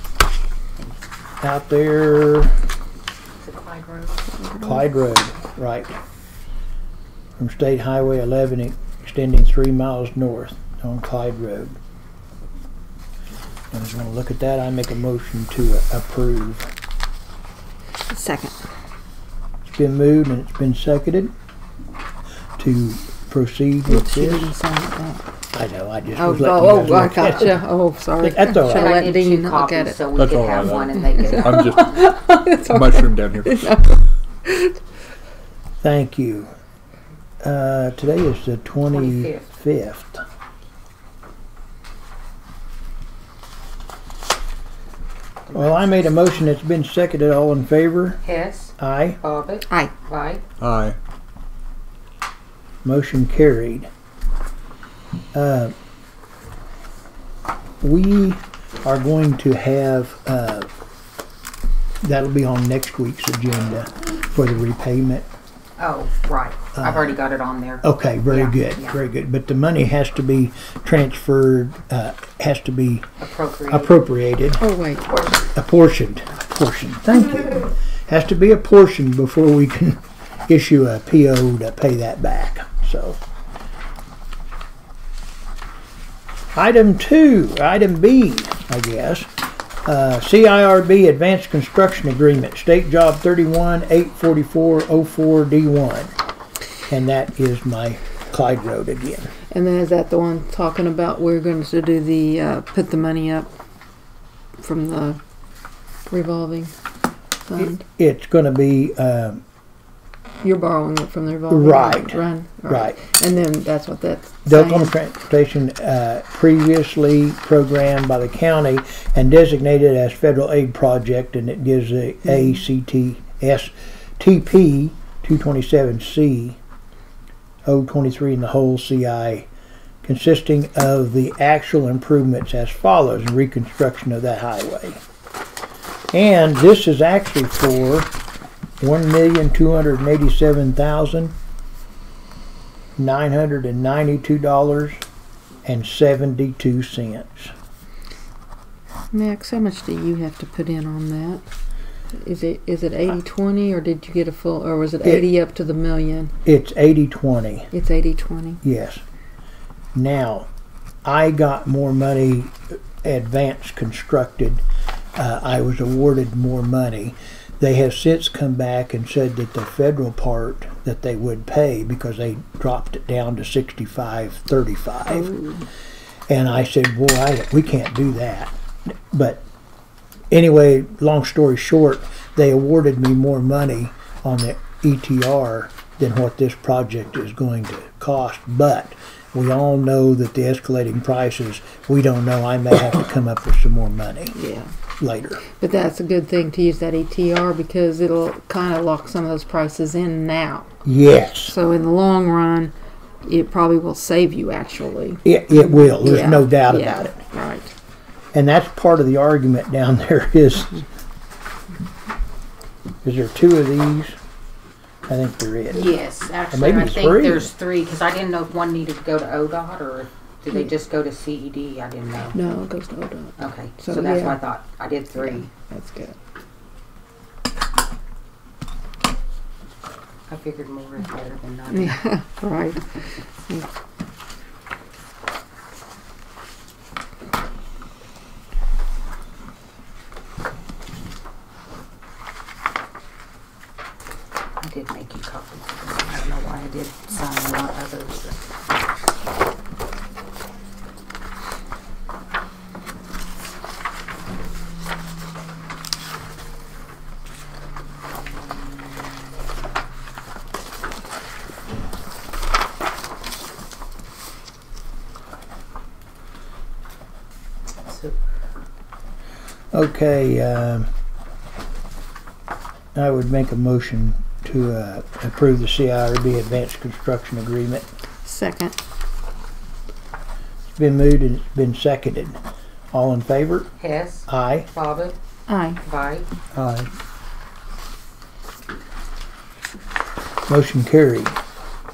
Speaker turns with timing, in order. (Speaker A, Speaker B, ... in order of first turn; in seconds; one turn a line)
Speaker A: 1.4-2.5
Speaker B: 3.4-4.3
Speaker C: 4.3-4.8
Speaker A: 4.6-6.0
Speaker A: 7.4-11.8
Speaker A: 13.7-16.7
Speaker C: 18.1-18.6
Speaker A: 19.6-21.3
Speaker A: 22.6-24.5
Speaker C: 23.9-25.2
Speaker A: 25.5-27.6
Speaker C: 26.1-30.1
Speaker A: 28.2-28.9
Speaker B: 28.6-32.2
Speaker D: 30.1-30.9
Speaker C: 31.0-34.8
Speaker D: 31.4-31.8
Speaker D: 32.7-33.7
Speaker A: 35.8-36.5
Speaker A: 37.4-40.2
Speaker B: 38.9-39.5
Speaker B: 45.5-45.9
Speaker A: 45.5-48.2
Speaker B: 48.2-50.4
Speaker A: 48.8-49.2
Speaker D: 50.6-50.9
Speaker A: 52.8-53.9
Speaker A: 55.3-55.7
Speaker A: 57.8-60.7
Speaker A: 62.0-65.3
Speaker B: 65.8-69.0
Speaker A: 66.8-67.1
Speaker A: 67.8-73.1
Speaker B: 73.2-73.9
Speaker A: 73.7-74.6
Speaker C: 74.6-75.2
Speaker B: 75.1-75.4
Speaker A: 75.5-83.2
Speaker A: 86.5-89.3
Speaker A: 89.8-96.1
Speaker A: 96.9-99.3
Speaker C: 99.5-103.5
Speaker C: 104.6-105.2
Speaker C: 106.1-106.7
Speaker C: 107.5-107.8
Speaker A: 107.6-109.4
Speaker C: 110.4-114.9
Speaker A: 111.5-113.0
Speaker A: 114.5-126.6
Speaker A: 127.7-129.5
Speaker A: 130.0-135.0
Speaker A: 136.1-138.1
Speaker A: 138.8-141.3
Speaker A: 143.0-145.0
Speaker A: 145.6-147.5
Speaker C: 149.1-151.4
Speaker C: 152.2-156.3
Speaker A: 156.4-157.7
Speaker C: 157.7-158.6
Speaker A: 158.6-159.0
Speaker A: 159.9-160.5
Speaker A: 161.0-164.6
Speaker A: 165.2-175.3
Speaker C: 175.1-175.7
Speaker A: 176.3-179.4
Speaker A: 180.3-194.4
Speaker C: 194.3-194.7
Speaker A: 195.0-195.4
Speaker C: 195.4-200.7
Speaker A: 200.8-201.5
Speaker C: 201.4-202.7
Speaker C: 203.2-207.7
Speaker A: 205.2-207.2
Speaker A: 208.3-210.8
Speaker A: 213.0-214.2
Speaker A: 215.1-215.9
Speaker B: 215.7-222.4
Speaker A: 216.5-217.5
Speaker C: 222.3-224.4
Speaker B: 223.4-225.5
Speaker C: 225.2-226.2
Speaker B: 230.3-232.0
Speaker C: 231.7-232.8
Speaker B: 244.6-248.4
Speaker B: 267.9-268.1
Speaker A: 269.7-270.9
Speaker A: 272.9-277.9
Speaker C: 278.2-278.8
Speaker A: 280.7-282.4
Speaker A: 282.9-283.7
Speaker B: 283.8-285.1
Speaker A: 284.3-284.7
Speaker C: 285.5-285.8
Speaker B: 285.8-286.3
Speaker A: 286.6-286.8
Speaker A: 290.5-291.4